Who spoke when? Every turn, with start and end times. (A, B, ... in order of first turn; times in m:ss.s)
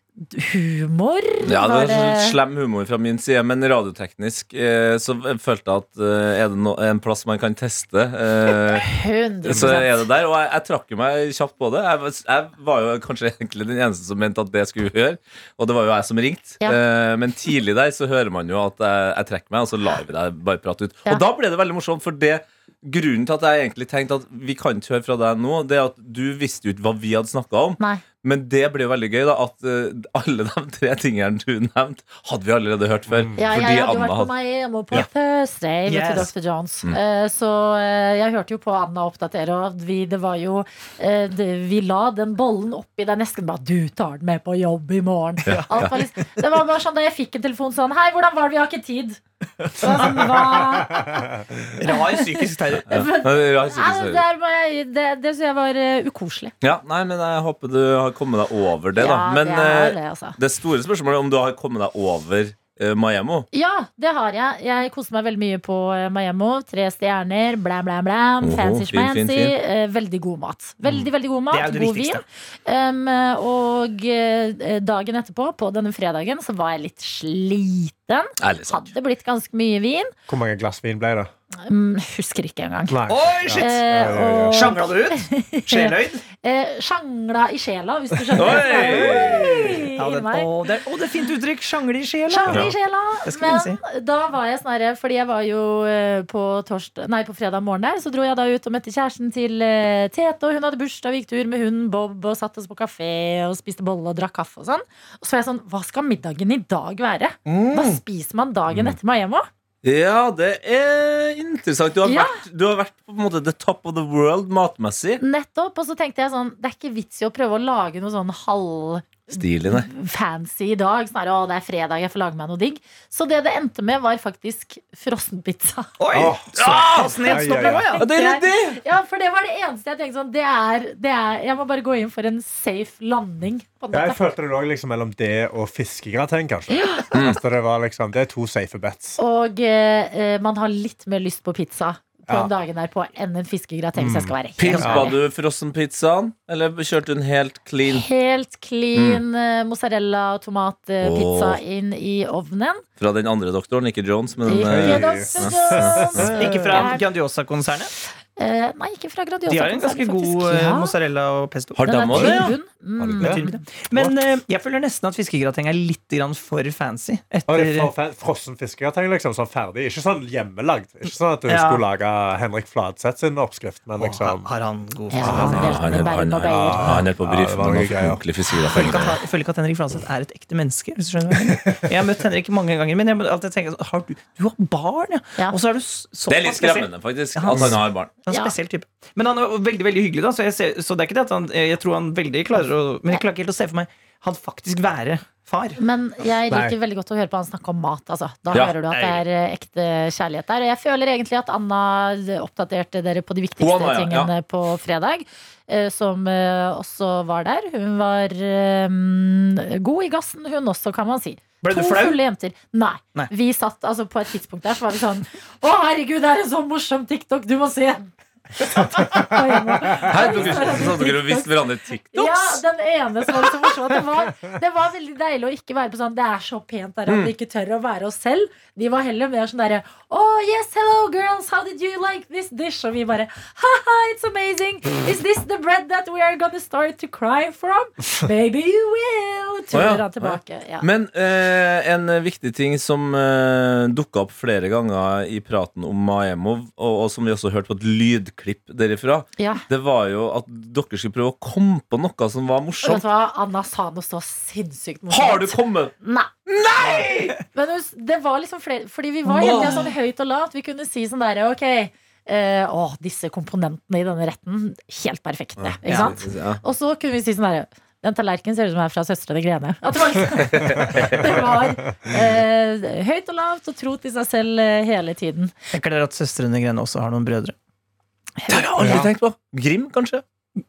0:00.2-0:02.4 A
0:01.4-0:08.9 B
0:08.7-0:10.0 A
0:09.4-0:34.3 B
0:33.1-0:33.4 C
0:33.4-0:49.2 A
0:35.9-0:36.3 D
0:45.4-0:45.9 D
0:45.4-0:45.9 B
0:49.7-0:51.3 A
0:49.9-0:50.8 D
0:50.9-0:51.6 C
0:51.8-0:53.0 D
0:51.9-0:52.3 A
0:52.8-0:54.2 B
0:52.9-0:56.5 A
0:56.6-1:03.5 B
0:59.0-1:00.4 A
1:03.5-1:20.1 A
1:08.4-1:09.5 B
1:11.5-1:12.2 D
1:18.4-1:18.9 B
1:20.3-1:21.3 C
1:21.6-1:23.0 A
1:22.9-1:24.8 C
1:23.1-1:23.7 D
1:23.5-1:30.5 A
1:24.5-1:26.2 D
1:28.3-1:29.7 C
1:28.3-1:29.8 B
1:30.0-1:32.7 D
1:32.3-1:49.5 A
1:33.2-1:33.8 D
1:47.4-1:48.0 B
1:49.8-1:55.2 B
1:52.0-1:52.3 A
1:55.2-2:05.9 A
1:59.3-1:59.9 B
2:06.0-2:08.3 D
2:06.1-2:07.9 C
2:06.6-2:07.2 B
2:07.4-2:14.2 A
2:08.0-2:08.8 B
2:13.9-2:19.2 C
2:17.1-2:17.4 B
2:19.2-2:25.2 A
2:24.0-2:25.1 C
2:24.6-2:28.0 B
2:27.8-2:32.8 A
2:28.9-2:29.2 B
2:31.0-2:31.6 B
2:33.0-2:36.4 B
2:34.4-2:37.0 A
2:34.5-2:36.8 C
2:36.3-2:37.9 D
2:38.4-2:40.9 A
2:39.5-2:42.2 D
2:41.8-2:42.6 B
2:41.8-2:43.6 A
2:42.1-2:44.2 C
2:43.2-2:47.9 D
2:47.5-2:54.5 C
2:51.5-2:51.8 D
2:54.0-2:55.9 D
2:55.1-2:57.0 A
2:55.2-2:59.2 B
2:55.4-2:55.8 C
2:56.4-2:58.2 C
2:58.6-3:15.8 D
2:58.7-2:59.0 C
3:06.3-3:08.1 B
3:07.5-3:07.8 C
3:08.3-3:08.5 A
3:15.8-3:41.5 A
3:18.5-3:19.2 B
3:23.6-3:24.3 B
3:31.6-3:32.2 D
3:39.0-3:40.7 C
3:40.0-3:42.6 B
3:42.1-4:00.9 A
3:59.7-4:13.0 B
4:09.4-4:09.6 A
4:12.8-4:16.3 A
4:15.1-4:15.9 B
4:16.5-4:17.4 B
4:16.8-4:17.4 D
4:17.5-4:35.5 A
4:19.3-4:19.9 B
4:19.4-4:19.7 D
4:25.6-4:26.6 B
4:25.8-4:26.2 D
4:30.3-4:31.6 B
4:35.7-4:37.5 D
4:38.4-4:39.0 A
4:38.5-4:40.2 B
4:38.8-4:39.1 D